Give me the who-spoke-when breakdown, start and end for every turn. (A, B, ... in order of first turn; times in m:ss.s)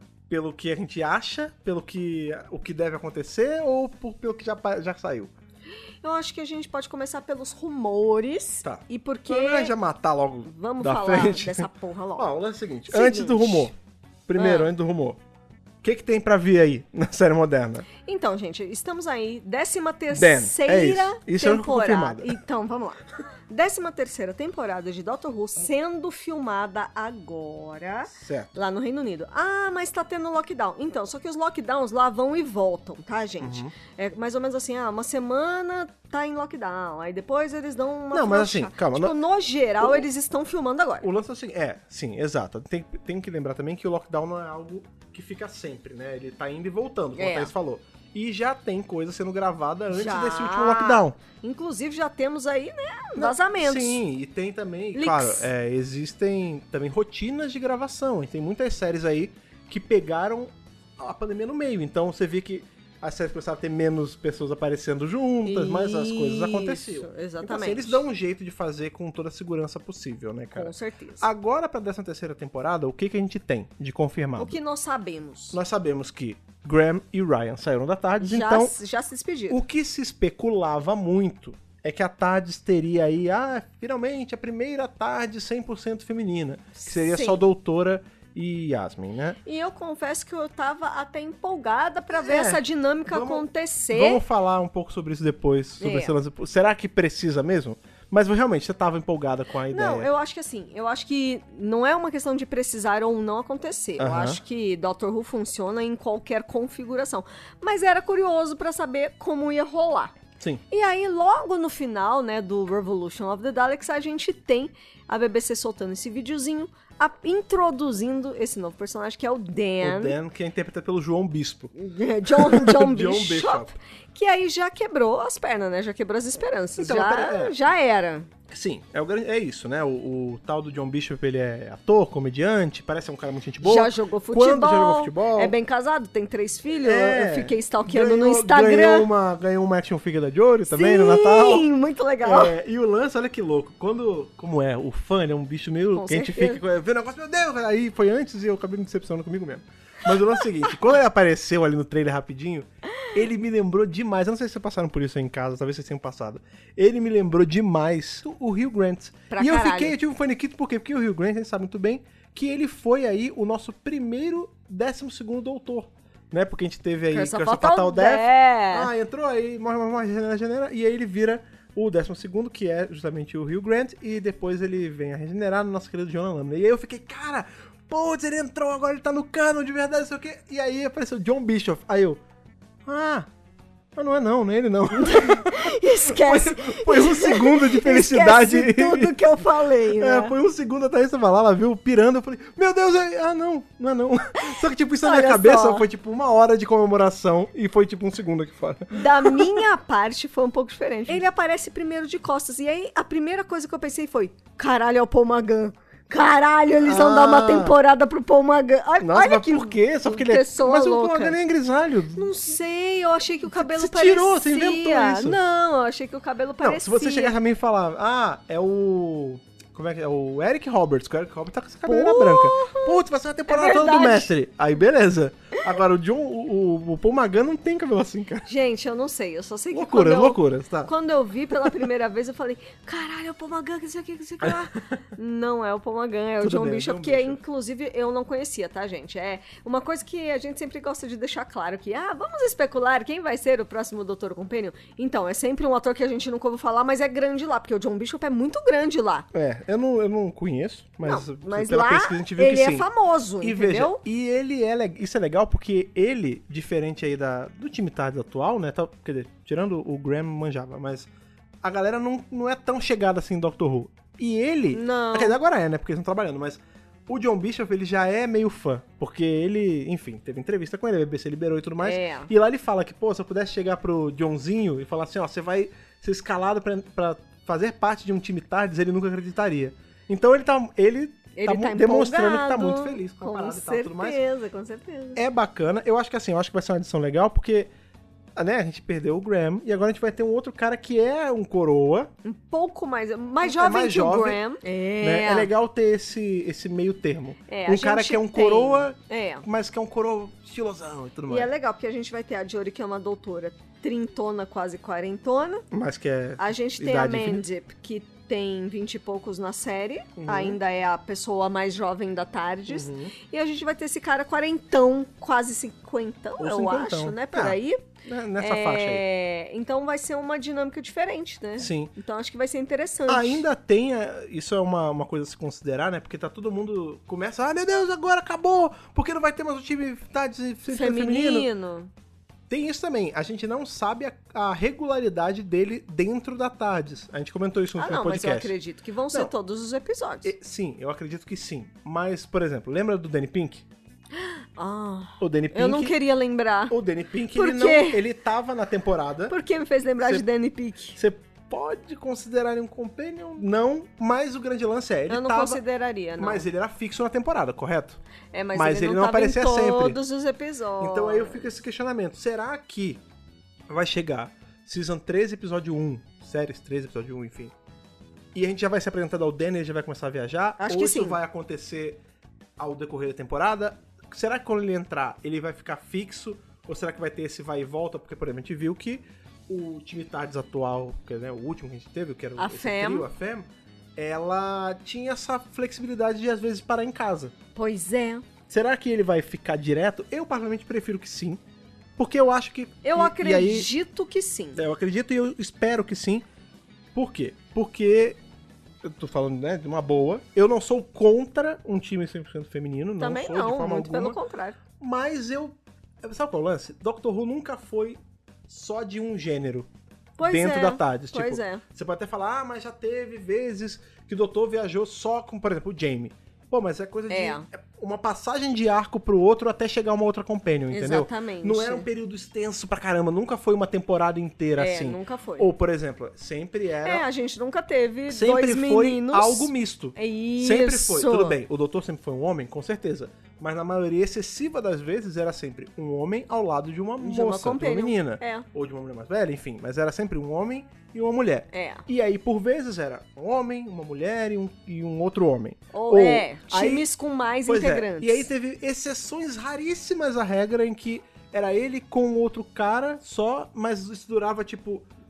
0:00.3-0:05.3 A
0:06.0-0:09.7 B
0:08.6-0:13.7 A
0:10.4-0:12.3 B
0:12.9-0:13.7 B
0:14.3-0:15.2 A
0:14.4-0:14.7 B
0:15.8-0:17.9 A
0:18.0-0:41.1 B
0:20.1-0:22.4 A
0:28.1-0:28.5 A
0:33.4-0:33.7 A
0:38.1-0:39.2 A
0:41.0-0:51.2 A
0:47.2-0:47.5 B
0:49.9-0:54.0 B
0:53.2-1:14.6 A
0:54.9-0:55.5 B
1:05.4-1:08.0 B
1:10.5-1:11.3 B
1:14.4-1:15.6 B
1:15.5-1:18.7 A
1:18.2-1:19.6 B
1:19.5-1:29.4 A
1:26.8-1:27.4 B
1:29.4-1:34.2 B
1:32.1-1:40.1 A
1:35.8-1:36.1 B
1:39.7-1:50.1 B
1:44.0-1:44.4 A
1:50.7-2:00.2 B
1:59.8-2:01.7 A
2:01.7-2:08.3 B
2:02.3-2:03.7 A
2:06.8-2:07.5 A
2:08.5-2:15.5 A
2:13.6-2:19.1 B
2:16.8-2:21.7 A
2:20.7-2:22.5 B
2:22.2-3:02.2 A
2:25.9-2:26.6 B
2:39.3-2:40.0 B
2:47.1-2:48.9 B
3:02.9-3:03.3 A
3:04.0-3:09.2 A
3:04.9-3:10.3 B
3:09.8-3:19.6 A
3:14.4-3:15.8 B
3:18.9-3:31.4 B
3:26.8-3:27.8 A
3:29.0-3:32.3 A
3:32.2-3:37.3 B
3:33.5-3:35.4 A
3:36.6-3:48.5 A
3:41.9-3:44.3 B
3:48.4-4:09.3 B
3:49.7-3:50.9 A
3:54.4-3:55.0 A
3:56.4-3:57.4 A
4:09.3-4:12.9 A
4:11.0-4:14.0 B
4:13.4-4:21.1 A
4:21.6-4:44.2 A
4:24.7-4:25.4 B
4:31.8-4:32.3 B
4:41.4-4:45.2 B
4:45.2-4:47.7 A
4:48.4-4:52.1 A
4:52.2-4:55.5 B
4:53.4-4:54.4 A
4:55.0-5:01.5 A
4:57.5-4:59.4 B
5:01.3-5:05.6 B
5:05.7-5:07.4 A
5:06.4-5:17.8 B
5:10.2-5:10.6 A
5:12.7-5:13.1 A
5:16.4-5:19.0 A
5:18.4-5:23.4 B
5:21.6-5:21.9 A
5:23.1-5:31.5 A
5:30.7-5:31.9 B
5:32.5-5:38.5 A
5:37.8-5:40.3 B
5:40.2-5:43.6 A
5:44.2-5:46.7 B
5:45.2-5:46.0 A
5:46.7-5:49.4 A
5:47.3-5:48.0 B
5:49.3-5:51.0 B
5:51.0-5:55.6 A
5:55.1-5:56.4 B
5:56.2-5:58.0 A
5:58.3-6:01.5 B
5:58.5-6:00.0 A
6:00.8-6:03.0 A
6:03.7-6:07.5 A
6:08.3-6:12.0 A
6:10.6-6:11.2 B
6:12.6-6:23.4 A
6:22.4-6:23.0 B
6:24.0-6:27.3 A
6:27.5-6:28.3 B
6:28.5-6:31.4 A
6:32.0-6:33.7 A
6:32.8-6:34.6 B
6:34.6-6:36.2 A
6:36.9-6:38.2 A
6:38.8-6:44.2 A
6:43.0-6:44.6 B
6:44.8-6:49.7 A
6:50.2-6:51.6 B
6:50.2-7:07.0 A
6:57.1-6:57.4 B
7:00.7-7:01.9 B
7:04.6-7:05.5 B
7:06.8-7:11.4 B
7:08.1-7:26.9 A
7:17.0-7:18.4 B
7:21.5-7:21.8 B
7:25.7-7:28.3 B
7:27.4-7:34.9 A